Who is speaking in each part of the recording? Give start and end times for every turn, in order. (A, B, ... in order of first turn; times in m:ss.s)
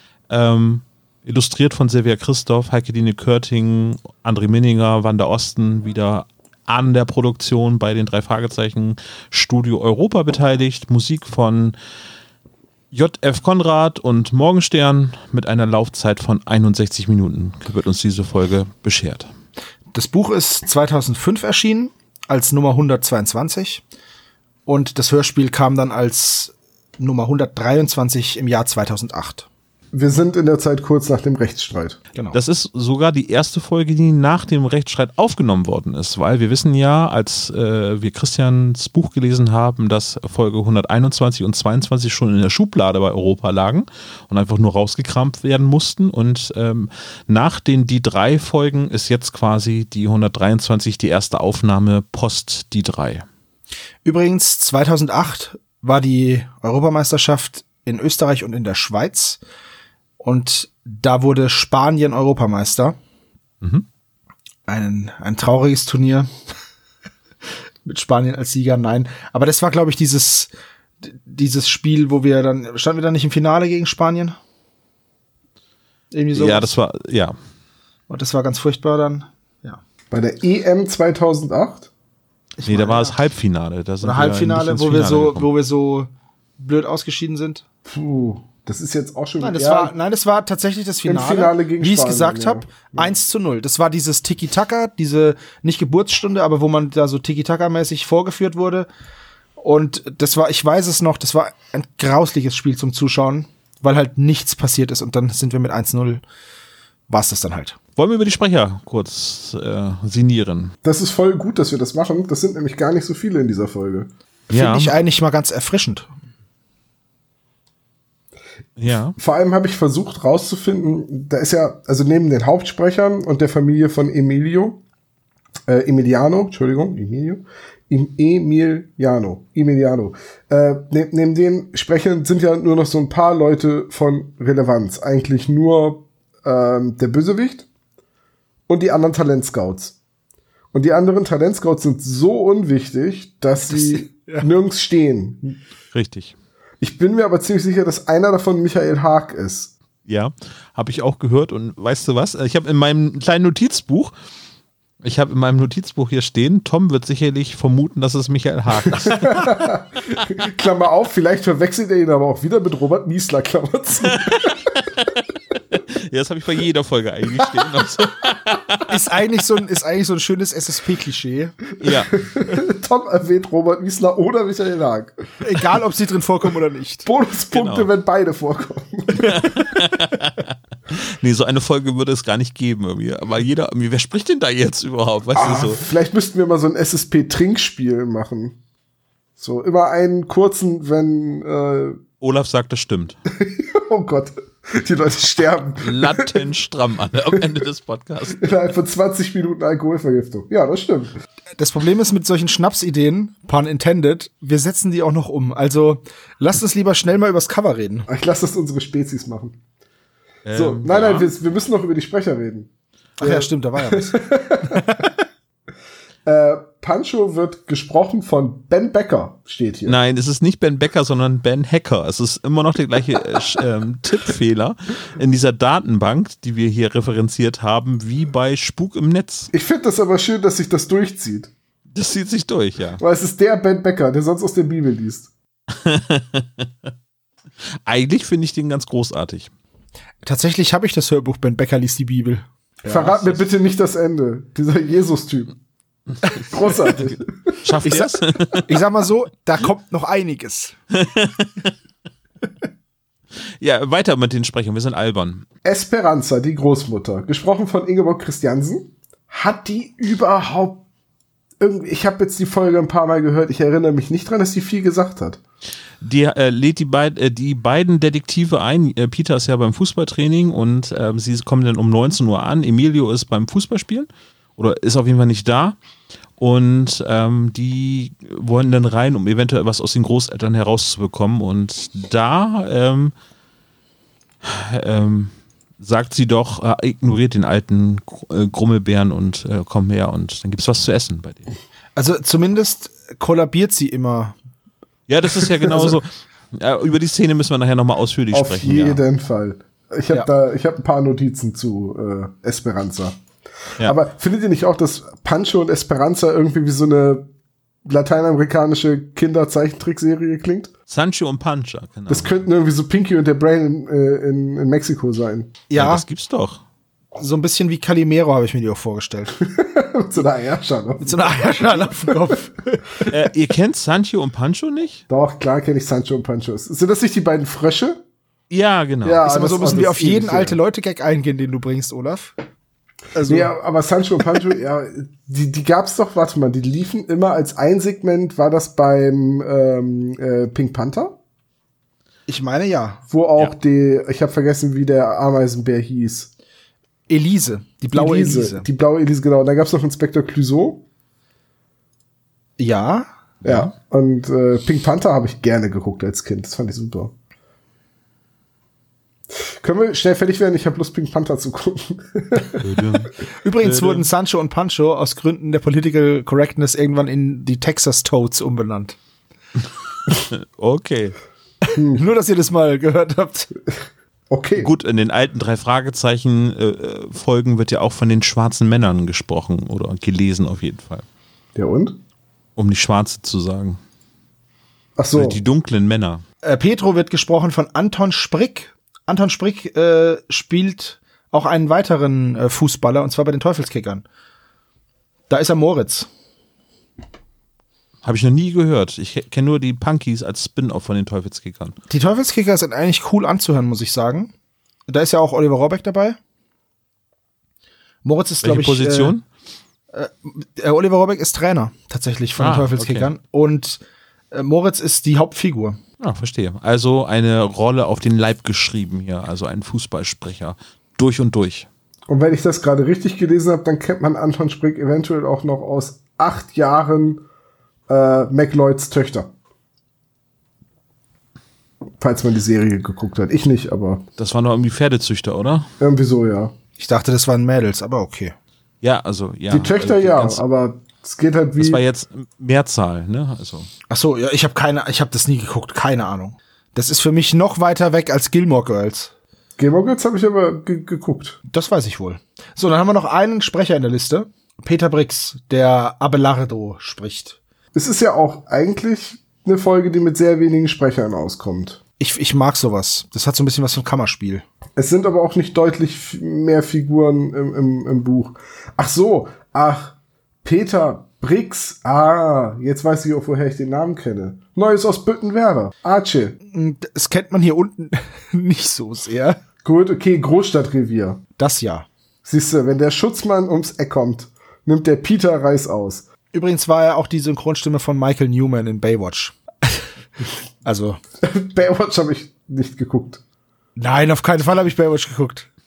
0:00.3-0:11.8 A
0:12.9-0:19.3 A
0:19.9-0:23.8 B
0:24.7-0:29.5 B
0:29.9-0:32.0 C
0:32.3-0:53.3 A
0:54.0-0:59.4 B
1:00.2-1:03.0 B
1:04.7-1:06.3 B
1:07.9-1:10.5 B
1:11.0-1:14.4 B
1:16.1-1:16.7 B
1:16.3-1:17.4 A
1:18.1-1:19.8 B
1:20.1-1:21.9 C
1:22.6-1:23.1 B
1:22.6-1:25.5 A
1:24.0-1:27.6 B
1:27.9-1:29.9 C
1:29.4-1:38.9 B
1:31.0-1:33.1 C
1:39.6-1:46.2 B
1:47.1-1:47.8 B
1:48.0-1:50.7 A
1:50.8-1:54.1 C
1:54.5-1:55.0 A
1:54.5-1:56.1 B
1:58.8-1:59.2 A
1:59.2-2:04.8 C
2:05.7-2:17.7 C
2:18.7-2:20.0 C
2:20.7-2:25.6 C
2:23.6-2:24.5 B
2:25.9-2:26.4 A
2:26.8-2:29.7 C
2:30.1-2:34.2 A
2:35.0-2:39.5 A
2:39.0-2:44.6 C
2:44.1-2:45.1 A
2:46.0-2:48.9 A
2:48.9-2:51.6 B
2:51.8-2:52.2 A
2:51.9-2:55.7 C
2:55.4-2:57.1 B
2:57.0-2:59.7 C
2:57.5-2:57.9 A
2:59.2-3:05.8 A
3:05.3-3:08.6 C
3:09.4-3:12.0 C
3:12.2-3:13.2 A
3:13.3-3:16.4 C
3:15.8-3:18.5 A
3:18.4-3:21.2 C
3:21.6-3:28.1 B
3:28.1-3:29.6 C
3:30.4-3:31.3 A
3:30.6-3:34.8 C
3:33.2-3:35.1 B
3:36.2-3:40.0 C
3:39.8-3:49.5 A
3:49.5-3:51.5 C
3:51.9-3:53.0 A
3:53.0-3:55.3 C
3:55.7-3:56.7 A
3:57.9-3:59.5 A
4:00.2-4:03.2 B
4:02.9-4:05.6 C
4:06.5-4:07.6 C
4:07.6-4:08.7 A
4:07.8-4:10.8 B
4:11.0-4:11.7 A
4:13.6-4:15.5 A
4:15.6-4:20.8 C
4:21.6-4:25.4 C
4:26.0-4:35.8 A
4:36.4-4:43.1 A
4:44.4-4:51.5 A
4:52.0-4:54.4 B
4:55.1-4:59.0 A
4:55.7-4:56.0 C
4:58.3-5:03.2 C
5:03.8-5:07.3 C
5:07.8-5:10.7 C
5:10.9-5:12.4 A
5:12.1-5:15.5 C
5:15.7-5:16.0 B
5:15.8-5:16.6 A
5:17.2-5:19.4 B
5:19.4-5:22.3 C
5:21.0-5:23.0 B
5:23.1-5:25.0 A
5:25.1-5:28.0 C
5:28.5-5:29.3 A
5:29.0-5:30.6 C
5:29.2-5:32.3 B
5:33.1-5:33.5 B
5:33.2-5:41.2 C
5:42.3-5:43.0 B
5:43.1-5:46.3 C
5:47.1-5:48.7 B
5:47.9-5:50.8 C
5:52.6-5:53.1 B
5:53.4-5:57.1 C
5:53.4-5:53.7 A
5:59.6-6:02.8 C
6:02.6-6:03.1 A
6:03.4-6:09.0 B
6:03.6-6:04.1 A
6:10.2-6:11.2 A
6:11.8-6:12.0 C
6:11.8-6:13.5 B
6:14.3-6:14.7 C
6:14.6-6:21.0 A
6:21.6-6:22.0 C
6:22.6-6:23.8 A
6:25.0-6:25.4 C
6:25.2-6:26.2 A
6:26.4-6:34.0 B
6:35.3-6:36.1 B
6:38.0-6:41.8 A
6:41.9-6:44.3 B
6:44.9-6:46.2 B
6:48.0-6:49.2 B
6:48.4-6:49.2 A
6:49.9-6:53.8 B
6:52.4-6:53.1 A
6:54.3-6:55.8 B
6:56.0-7:01.7 A
7:02.1-7:07.2 C
7:07.9-7:09.3 C
7:12.0-7:14.0 C
7:14.2-7:15.7 A
7:15.8-7:16.5 C
7:16.8-7:18.4 B
7:18.8-7:20.4 A
7:19.5-7:21.8 C
7:21.6-7:23.7 A
7:23.9-7:29.1 B
7:29.6-7:31.4 C
7:31.5-7:37.4 B
7:37.7-7:41.8 C
7:42.0-7:44.5 B
7:44.8-7:56.4 C
7:56.5-7:59.4 B
7:59.6-8:01.2 C
8:01.4-8:01.9 B
8:02.2-8:06.1 C
8:06.3-8:09.8 B
8:10.6-8:11.0 B
8:11.2-8:13.2 C
8:13.8-8:15.5 B